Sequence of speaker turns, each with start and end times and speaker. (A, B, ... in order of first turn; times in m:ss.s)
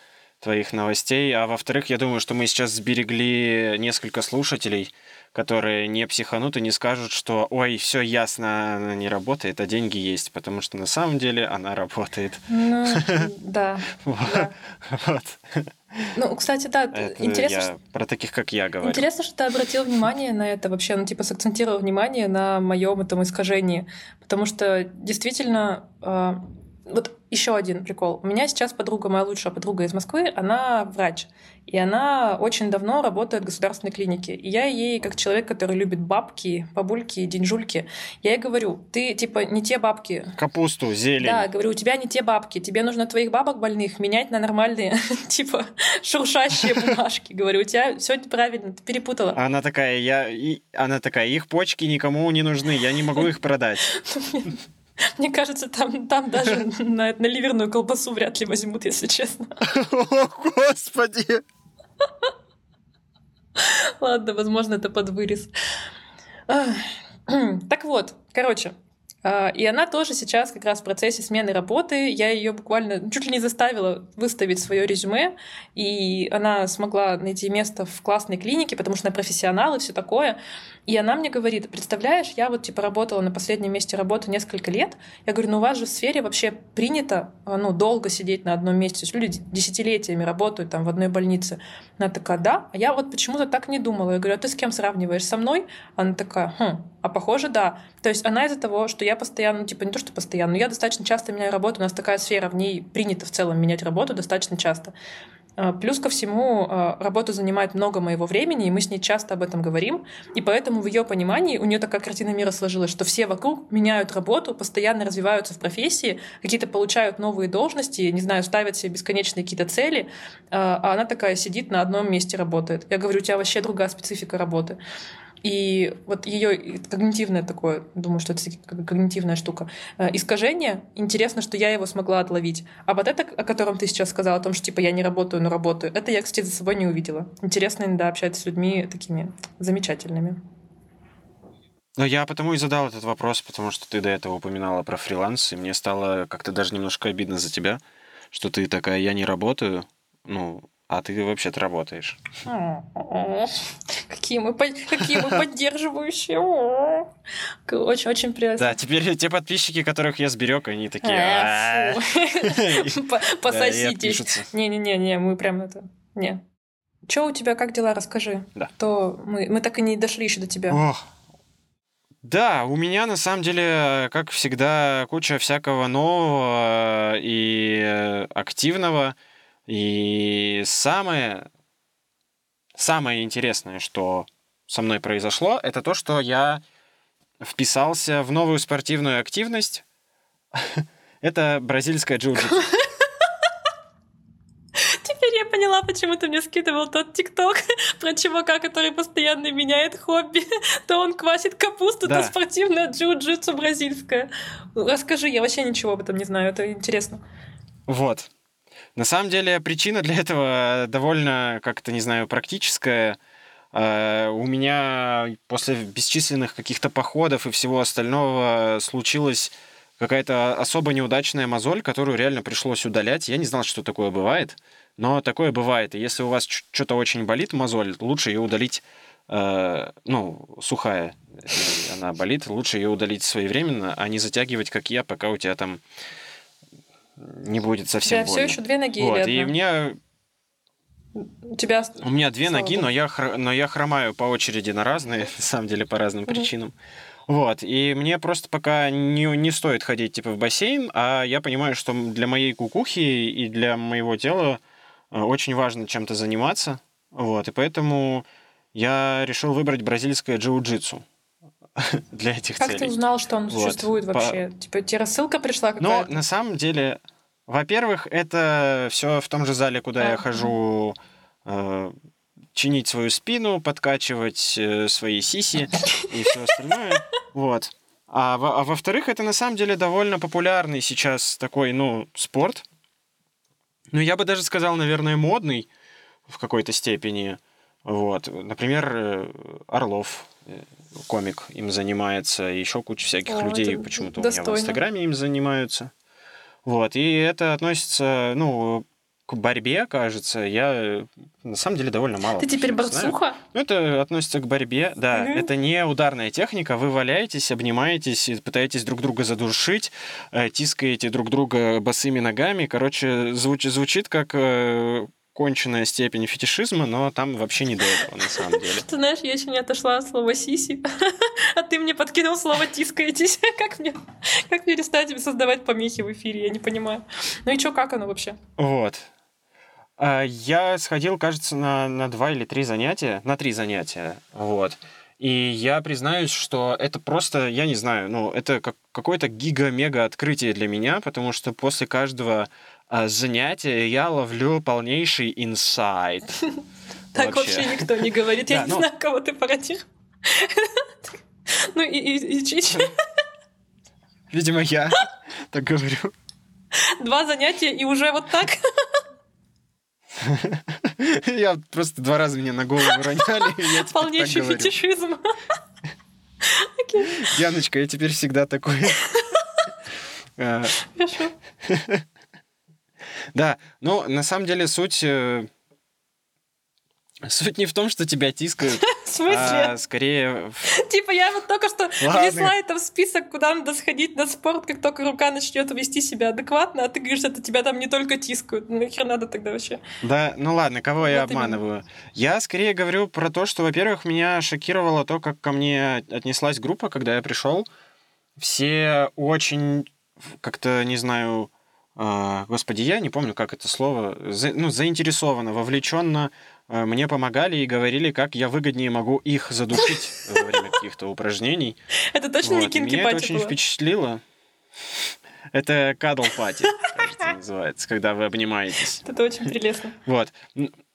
0:00.4-0:13.3 A
0:12.5-0:14.6 B
0:14.0-0:16.0 A
0:16.1-0:17.7 B
0:16.9-0:19.0 A
0:18.8-0:40.4 B
0:40.4-0:41.5 A
0:41.2-0:49.4 B
0:49.3-0:53.9 A
0:53.9-0:54.6 B
0:55.2-0:59.6 B
0:59.6-1:01.4 A
1:03.6-1:05.5 B
1:06.5-1:08.7 B
1:09.2-1:44.9 B
1:45.6-2:04.8 B
2:05.4-2:20.4 B
2:22.0-2:27.8 A
2:28.3-2:32.2 A
2:32.5-2:37.1 B
2:35.0-2:35.4 A
2:37.6-2:38.7 B
2:38.6-2:44.5 A
2:41.0-2:46.4 B
2:47.1-2:50.8 B
2:50.7-2:51.0 A
2:52.2-2:59.2 A
2:59.7-3:01.4 A
3:02.7-3:06.6 A
3:07.4-3:09.8 A
3:10.5-3:12.7 A
3:14.8-3:27.2 B
3:22.0-3:22.3 A
3:27.9-3:28.3 A
3:29.0-3:33.2 A
3:33.7-3:55.8 A
3:57.2-4:00.0 A
3:58.0-3:59.6 B
4:01.2-4:02.9 B
4:02.0-4:06.7 A
4:07.3-4:21.0 A
4:21.8-4:22.9 A
4:22.6-4:26.2 B
4:23.5-4:24.4 A
4:25.8-4:31.9 A
4:30.0-4:30.5 B
4:32.5-4:42.6 A
4:36.0-4:36.5 B
4:43.9-4:45.7 A
4:46.3-4:55.9 A
4:53.3-4:54.8 B
4:56.6-5:18.8 A
5:02.4-5:03.4 B
5:05.1-5:05.5 B
5:18.4-5:28.4 B
5:28.6-5:29.1 A
5:30.0-5:46.4 A
5:47.1-5:48.9 A
5:47.1-5:50.9 B
5:51.5-5:53.0 B
5:54.3-5:56.1 A
5:56.8-5:59.0 B
6:00.2-6:04.8 A
6:02.9-6:05.3 B
6:06.4-6:07.3 B
6:07.1-6:09.1 A
6:08.9-6:09.4 B
6:10.4-6:10.8 A
6:10.8-6:11.3 B
6:11.6-6:12.0 A
6:13.3-6:15.5 A
6:17.2-6:20.7 A
6:18.8-6:19.8 B
6:20.6-6:29.8 B
6:22.0-6:22.5 A
6:30.0-6:37.6 A
6:31.0-6:31.6 B
6:38.4-6:51.8 A
6:52.1-6:53.6 B
6:52.4-6:54.2 A
6:55.5-6:59.0 A
6:59.0-7:00.0 B
7:00.0-7:00.7 A